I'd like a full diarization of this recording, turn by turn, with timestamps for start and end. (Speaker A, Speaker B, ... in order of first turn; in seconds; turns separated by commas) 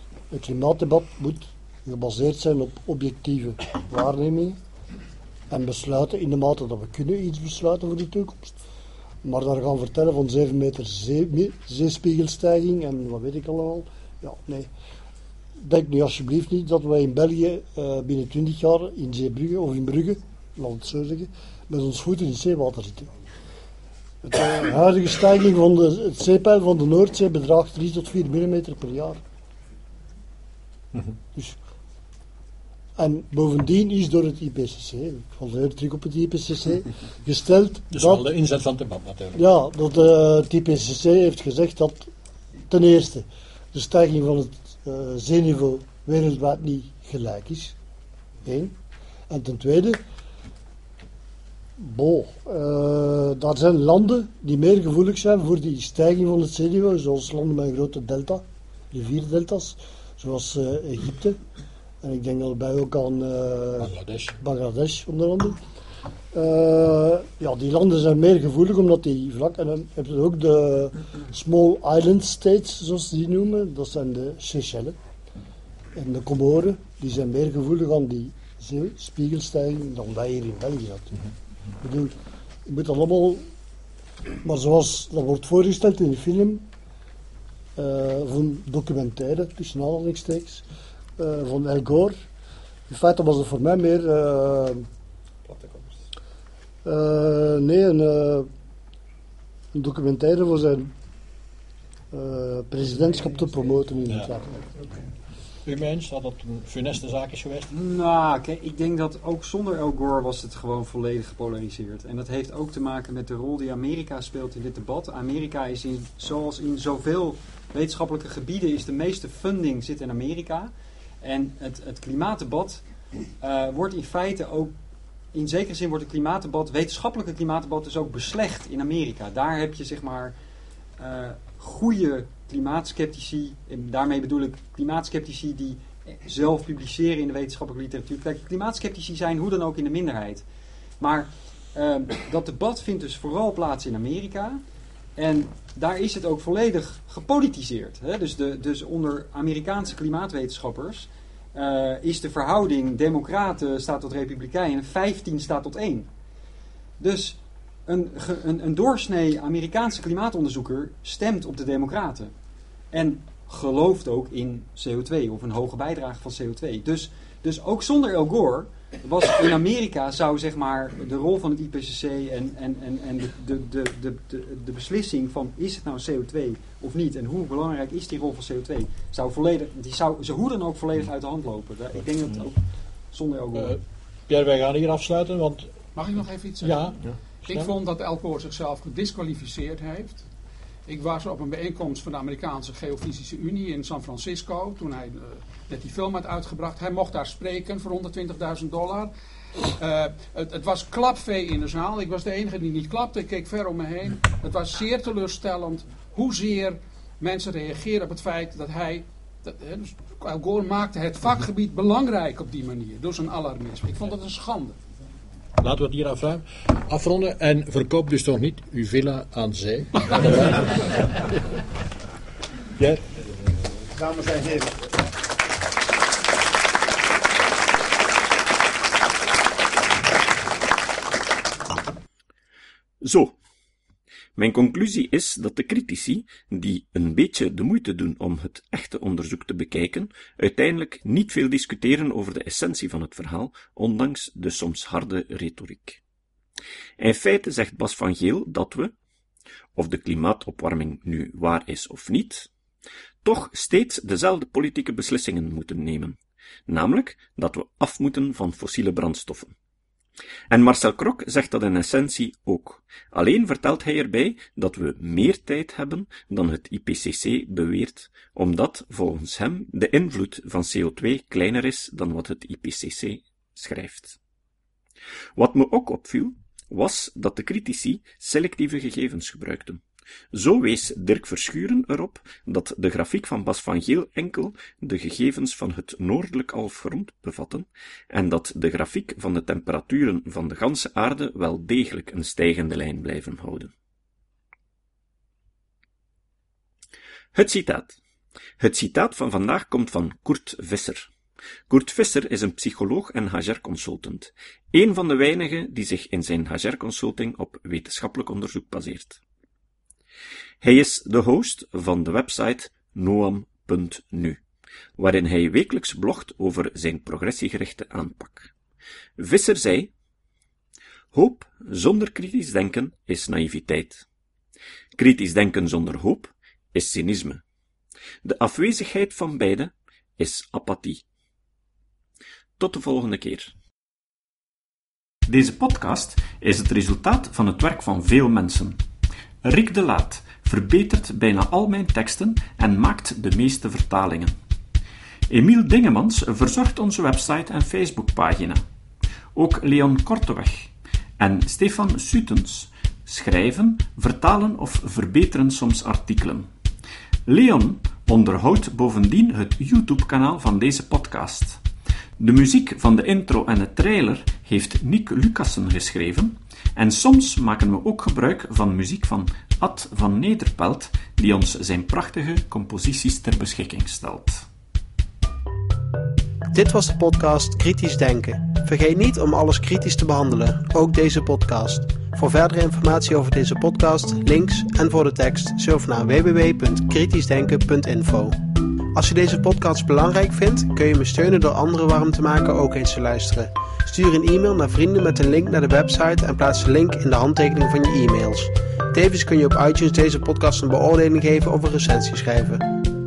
Speaker A: 0.3-4.6, Speaker A: 5.5-8.6, Speaker A: 9.2-14.7, Speaker A: 15.6-23.1, Speaker A: 24.2-29.2, Speaker A: 33.0-38.3, Speaker B: 37.9-39.4, Speaker A: 39.4-42.1, Speaker A: 42.7-47.8, Speaker A: 48.4-48.8, Speaker A: 49.3-50.0, Speaker A: 51.8-61.4, Speaker A: 62.0-65.6, Speaker B: 63.8-64.4, Speaker A: 66.3-75.0, Speaker A: 76.0-81.2, Speaker A: 81.8-82.2, Speaker A: 82.7-83.4, Speaker A: 84.4-86.7, Speaker A: 87.8-90.6, Speaker A: 91.2-92.2, Speaker A: 92.9-94.8, Speaker C: 95.5-95.8, Speaker A: 96.8-98.5, Speaker A: 99.7-100.9, Speaker A: 102.1-104.7, Speaker B: 105.7-107.7, Speaker C: 107.7-122.8, Speaker C: 123.4-124.7, Speaker C: 125.3-130.3, Speaker C: 131.0-140.5, Speaker C: 141.0-144.6, Speaker C: 145.2-156.1, Speaker C: 157.0-162.3, Speaker C: 162.9-183.8, Speaker B: 183.5-185.7, Speaker D: 185.9-190.2, Speaker B: 186.6-187.7, Speaker D: 190.9-214.8, Speaker B: 215.6-221.3, Speaker D: 220.1-220.4, Speaker D: 224.1-224.7, Speaker E: 233.0-233.3, Speaker E: 234.3-246.0, Speaker E: 247.0-248.9, Speaker E: 249.8-252.5, Speaker E: 253.2-259.5, Speaker E: 260.5-274.2, Speaker E: 275.4-279.8, Speaker E: 280.3-293.7, Speaker E: 297.3-298.0, Speaker E: 298.6-301.1, Speaker E: 301.7-309.2, Speaker E: 310.6-314.4, Speaker E: 315.0-318.5, Speaker E: 319.2-319.9, Speaker E: 321.1-324.0, Speaker E: 325.0-327.4, Speaker E: 328.2-331.0, Speaker E: 332.6-333.5, Speaker E: 335.2-338.8, Speaker E: 339.4-344.4, Speaker E: 345.3-348.6, Speaker E: 349.4-356.5, Speaker E: 357.2-361.6, Speaker E: 362.2-374.5, Speaker F: 376.5-388.4, Speaker F: 388.9-402.6